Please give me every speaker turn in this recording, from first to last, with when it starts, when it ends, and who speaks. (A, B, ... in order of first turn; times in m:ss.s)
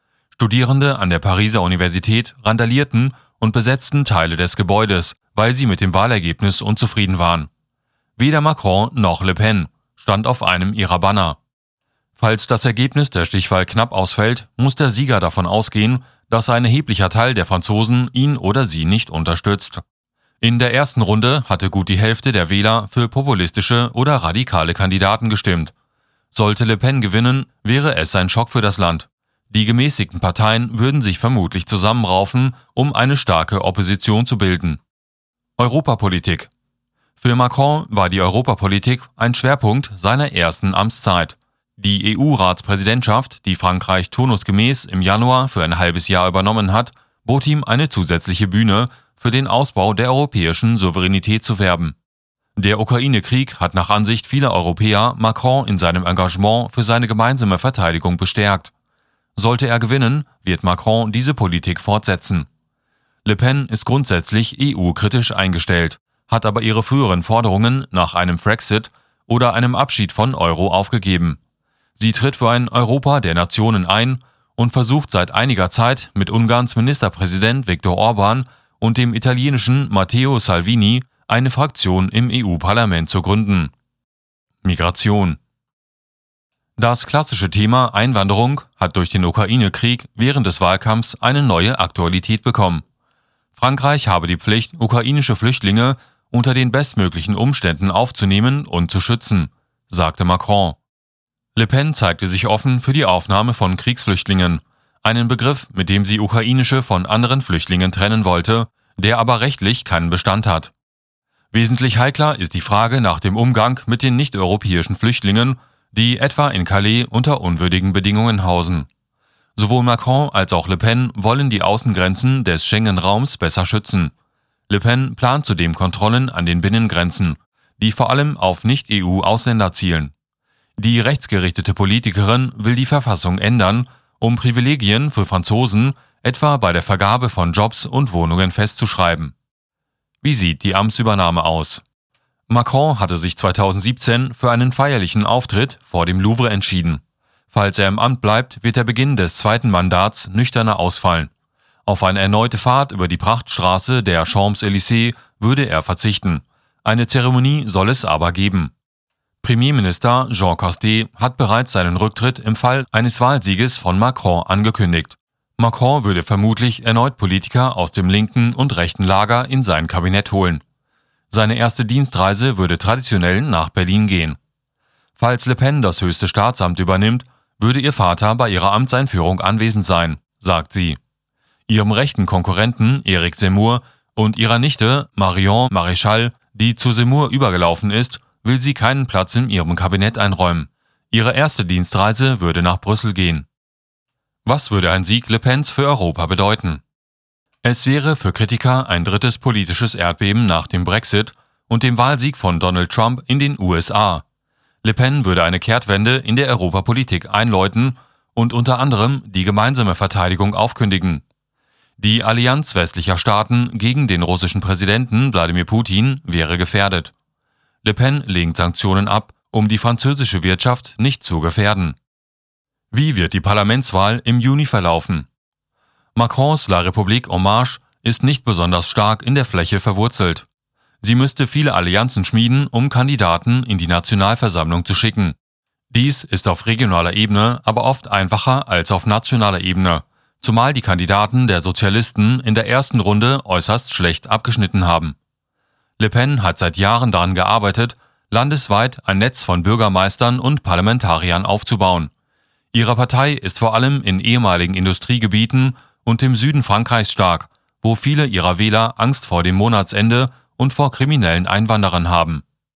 0:00.4-0:07.5 A
0:08.2-0:11.4 A
0:12.2-0:19.8 A
0:20.4-0:25.7 A
0:26.3-0:34.8 A
0:35.6-0:36.5 A
0:37.2-0:52.0 A
0:52.6-0:58.7 A
0:59.4-1:02.5 A
1:03.2-1:11.4 A
1:12.0-1:23.7 A
1:24.6-1:25.4 A
1:26.8-1:32.8 A
1:33.5-1:40.8 A
1:41.6-1:50.7 A
1:51.5-1:58.9 A
1:59.6-2:04.1 A
2:04.7-2:10.1 A
2:10.8-2:19.3 A
2:20.2-2:21.8 A
2:22.5-2:31.3 A
2:31.8-2:38.7 A
2:39.4-2:50.6 A
2:51.3-2:54.4 A
2:55.2-3:01.0 A
3:01.7-3:13.5 A
3:14.4-3:16.8 A
3:17.6-3:24.2 A
3:24.8-3:31.2 A
3:32.0-3:37.1 A
3:37.8-3:42.0 A
3:42.9-3:45.3 A
3:46.1-3:50.4 A
3:51.0-3:55.4 A
3:55.9-4:05.2 A
4:06.0-4:12.1 A
4:12.7-4:22.4 A